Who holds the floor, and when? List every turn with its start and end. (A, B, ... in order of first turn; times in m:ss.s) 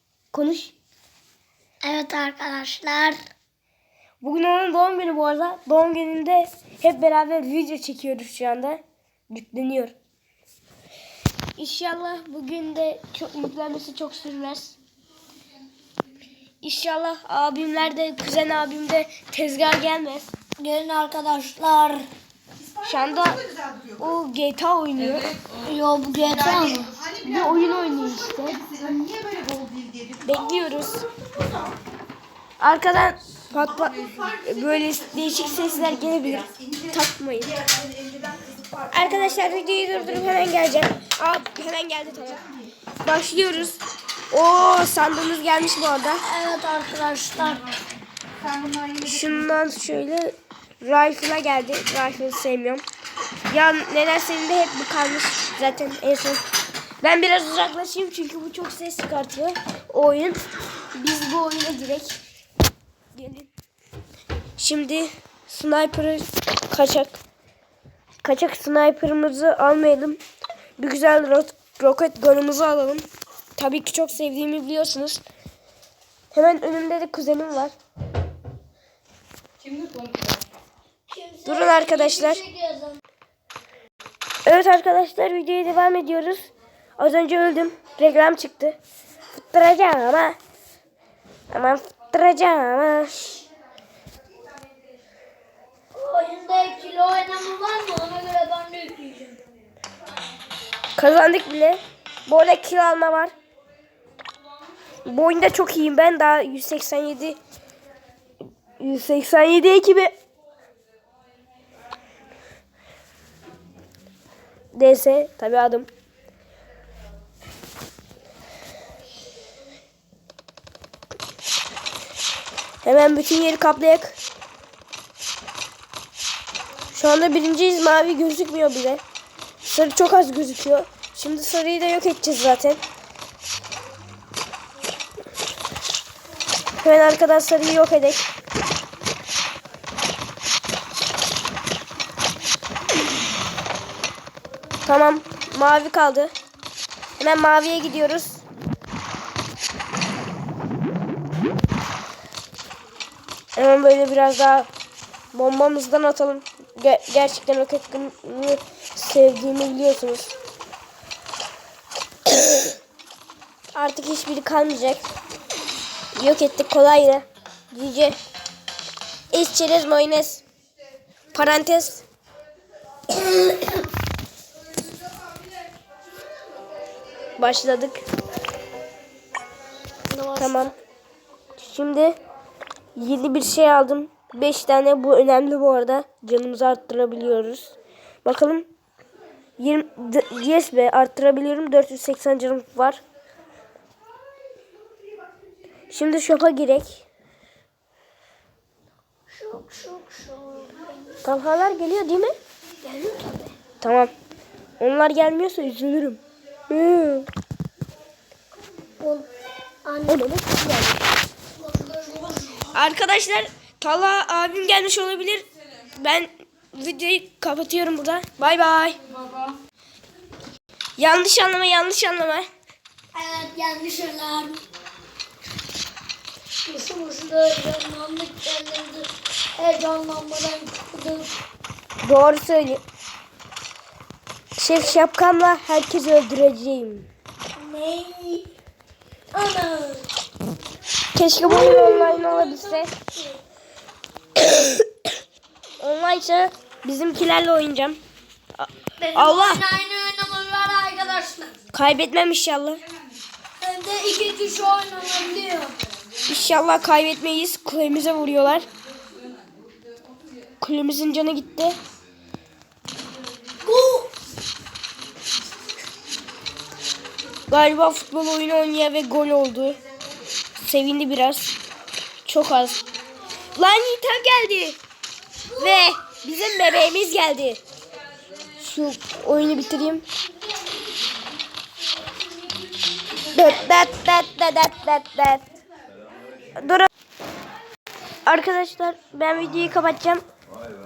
0:00.3-0:00.7 A
0:01.8-0:03.2 B
0:04.2-0:09.9 A
0:11.6-0:14.8 A
0:16.6-0:20.3 A
0:20.6-0:22.1 B
0:22.8-0:23.4 A
0:24.0-0:25.3 A
0:25.6-0:27.0 B
0:27.2-0:28.6 A
0:30.2-0:31.1 A
0:32.6-0:37.5 A
0:38.9-0:42.5 A
0:43.0-0:43.8 A
0:44.3-0:46.2 A
0:46.2-0:47.8 B
0:49.0-0:52.8 A
0:53.5-0:56.4 A
0:57.0-1:00.4 A
1:00.9-1:02.2 A
1:03.1-1:03.5 A
1:04.6-1:07.2 A
1:08.2-1:10.2 A
1:10.8-1:13.0 A
1:13.6-1:15.2 A
1:16.3-1:17.7 A
1:21.1-1:23.0 B
1:21.5-1:22.4 A
1:24.5-1:26.5 A
1:27.0-1:28.8 A
1:29.3-1:30.4 A
1:31.5-1:33.4 A
1:36.0-1:39.4 B
1:41.0-1:43.3 A
1:45.1-1:47.4 A
1:48.8-1:50.1 A
1:54.8-1:55.9 A
2:02.8-2:04.2 A
2:06.9-2:09.0 A
2:09.6-2:12.8 A
2:16.8-2:18.2 A
2:24.9-2:26.3 A
2:27.2-2:28.4 A
2:33.6-2:34.7 A
2:35.3-2:40.3 A
2:43.8-2:45.1 A
2:46.2-2:48.2 A
2:49.3-2:50.4 A
2:51.3-2:52.0 A
2:57.4-2:58.0 A
3:00.1-3:00.7 B
3:00.4-3:00.7 A
3:01.6-3:02.2 A
3:03.0-3:08.7 A
3:09.6-3:13.0 A
3:15.9-3:17.0 A
3:19.3-3:21.2 B
3:21.2-3:22.3 A
3:22.8-3:23.6 B
3:23.8-3:24.1 A
3:24.8-3:27.3 A
3:29.0-3:29.3 B
3:29.9-3:30.3 B
3:30.1-3:31.0 A
3:31.6-3:32.8 B
3:32.7-3:35.4 A
3:36.0-3:39.0 A
3:41.0-3:42.5 A
3:43.1-3:44.6 B
3:46.6-3:51.3 B
3:52.0-3:52.8 A
3:54.6-3:57.1 A
3:57.6-3:58.5 B
3:59.3-4:00.1 B
4:01.2-4:02.9 A
4:01.4-4:03.4 B
4:04.4-4:04.8 A
4:05.8-4:08.0 A
4:08.6-4:09.6 A
4:09.0-4:11.6 B
4:11.7-4:12.8 A
4:13.6-4:15.8 B
4:16.3-4:18.7 A
4:20.6-4:21.8 A
4:23.6-4:24.1 B
4:27.5-4:29.8 A
4:30.6-4:31.5 A
4:32.3-4:32.8 A
4:33.6-4:34.8 A
4:35.6-4:37.6 A
4:38.6-4:40.0 A
4:42.2-4:42.7 B
4:43.3-4:45.5 A
4:46.6-4:46.9 A
4:48.3-4:50.2 A